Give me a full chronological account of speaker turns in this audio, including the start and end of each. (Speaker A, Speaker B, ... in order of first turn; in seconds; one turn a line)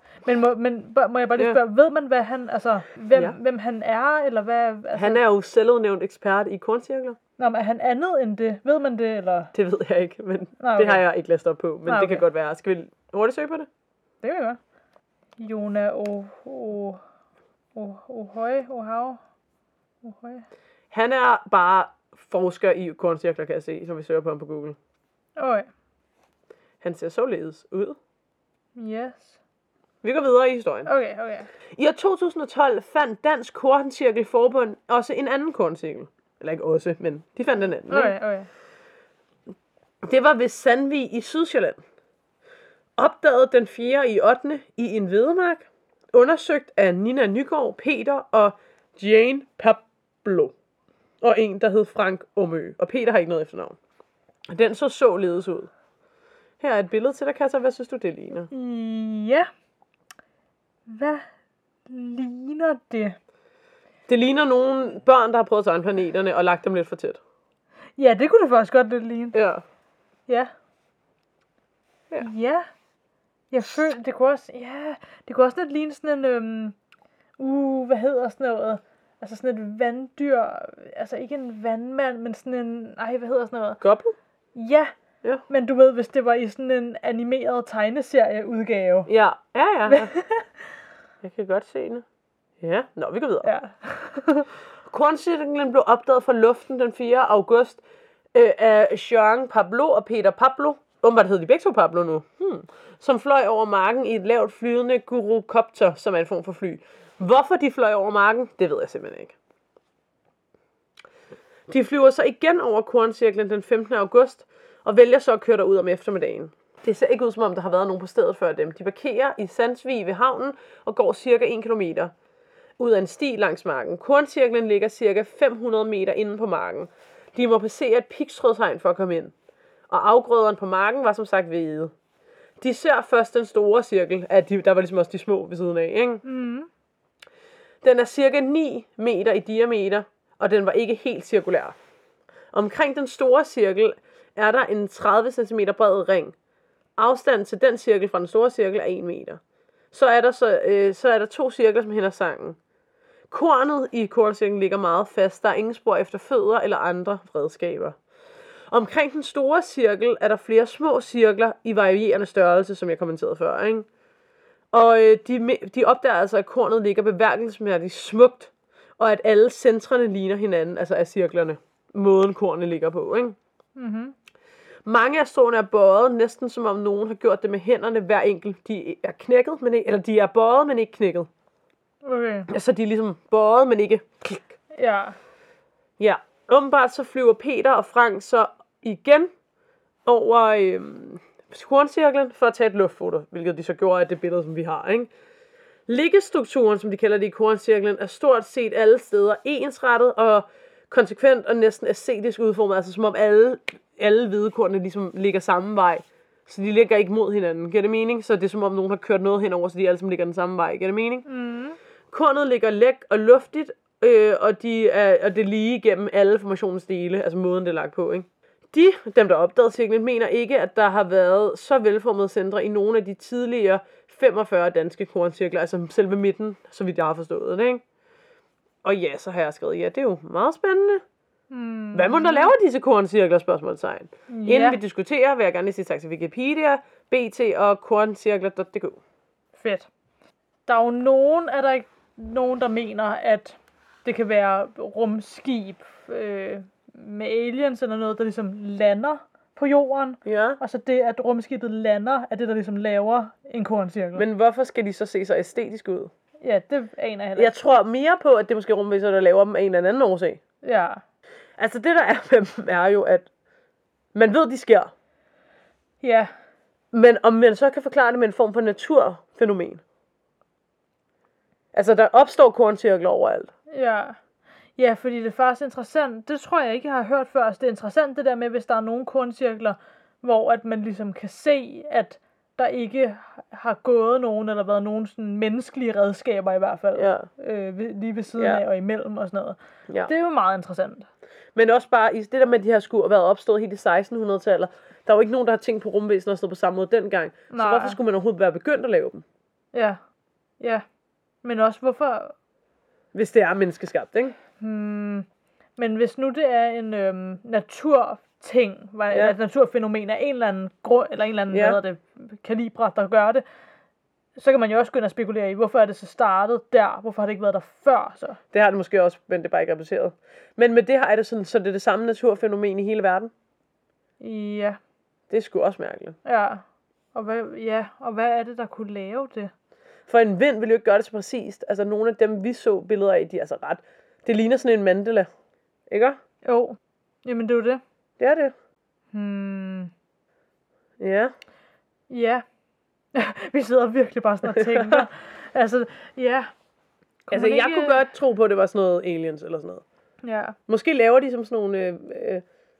Speaker A: 0.2-5.2
Speaker B: 5.0-7.2
Speaker A: 7.4-9.5
Speaker B: 9.5-13.7
Speaker A: 10.6-11.0
Speaker A: 11.9-12.2
Speaker A: 14.2-14.6
Speaker A: 15.4-17.0
Speaker A: 17.7-19.2
Speaker A: 20.0-20.4
Speaker B: 20.9-24.8
Speaker A: 25.4-25.7
Speaker B: 26.8-28.0
Speaker A: 28.8-29.4
Speaker B: 30.0-30.9
Speaker A: 30.9-31.5
Speaker B: 31.8-38.1
Speaker A: 37.9-38.5
Speaker B: 40.0-41.8
Speaker B: 43.0-50.5
Speaker B: 51.2-53.8
Speaker B: 54.5-55.7
Speaker B: 56.6-58.5
Speaker A: 58.5-59.5
Speaker A: 60.9-61.3
Speaker A: 61.9-63.2
Speaker B: 64.1-67.2
Speaker A: 68.0-69.4
Speaker B: 69.3-69.6
Speaker A: 72.2-72.7
Speaker A: 73.5-76.8
Speaker A: 77.4-83.8
Speaker B: 83.8-84.1
Speaker A: 84.5-84.9
Speaker A: 85.5-89.1
Speaker B: 89.1-90.1
Speaker A: 89.9-90.5
Speaker B: 91.2-92.0
Speaker B: 92.6-93.5
Speaker A: 93.4-94.5
Speaker B: 94.8-97.8
Speaker B: 98.3-109.3
Speaker B: 111.7-122.1
Speaker B: 122.8-129.3
Speaker B: 129.9-131.9
Speaker B: 132.6-136.2
Speaker A: 136.2-136.7
Speaker B: 137.8-141.8
Speaker B: 142.5-146.3
Speaker B: 147.0-149.4
Speaker B: 149.9-152.6
Speaker B: 153.3-158.0
Speaker B: 158.7-163.8
Speaker B: 164.7-173.3
Speaker A: 173.8-174.1
Speaker B: 174.8-181.3
Speaker A: 182.0-182.5
Speaker B: 182.5-184.5
Speaker A: 184.7-185.2
Speaker B: 186.0-189.3
Speaker B: 190.1-195.1
Speaker B: 195.9-211.2
Speaker A: 211.2-211.8
Speaker B: 212.1-227.8
Speaker B: 228.8-231.0
Speaker A: 231.5-232.5
Speaker B: 231.9-239.0
Speaker A: 234.3-234.8
Speaker A: 239.6-239.9
Speaker A: 240.7-254.2
Speaker B: 250.2-250.6
Speaker B: 254.2-256.1
Speaker A: 256.4-257.5
Speaker B: 257.4-260.4
Speaker A: 260.6-261.0
Speaker B: 261.6-263.3
Speaker B: 264.1-264.9
Speaker A: 266.0-266.3
Speaker B: 266.9-269.8
Speaker B: 271.7-273.5
Speaker A: 273.7-274.2
Speaker A: 274.8-291.1
Speaker B: 286.9-287.3
Speaker B: 288.4-288.6
Speaker B: 291.5-299.2
Speaker A: 297.5-298.0
Speaker A: 299.7-300.0
Speaker A: 301.4-302.3
Speaker B: 303.1-304.3
Speaker A: 304.6-305.2
Speaker A: 305.8-313.4
Speaker B: 311.5-311.8
Speaker A: 314.4-318.4
Speaker B: 318.5-323.3
Speaker A: 324.2-324.8
Speaker B: 325.3-326.1
Speaker A: 326.2-326.6
Speaker A: 327.1-329.5
Speaker B: 330.1-335.3
Speaker B: 335.9-336.2
Speaker A: 336.4-337.8
Speaker B: 338.2-338.5
Speaker A: 339.1-339.9
Speaker B: 341.0-341.3
Speaker A: 342.1-342.4
Speaker A: 343.1-346.5
Speaker B: 344.4-345.1
Speaker B: 347.3-349.8
Speaker A: 347.3-348.0
Speaker A: 350.2-350.6
Speaker B: 350.7-352.4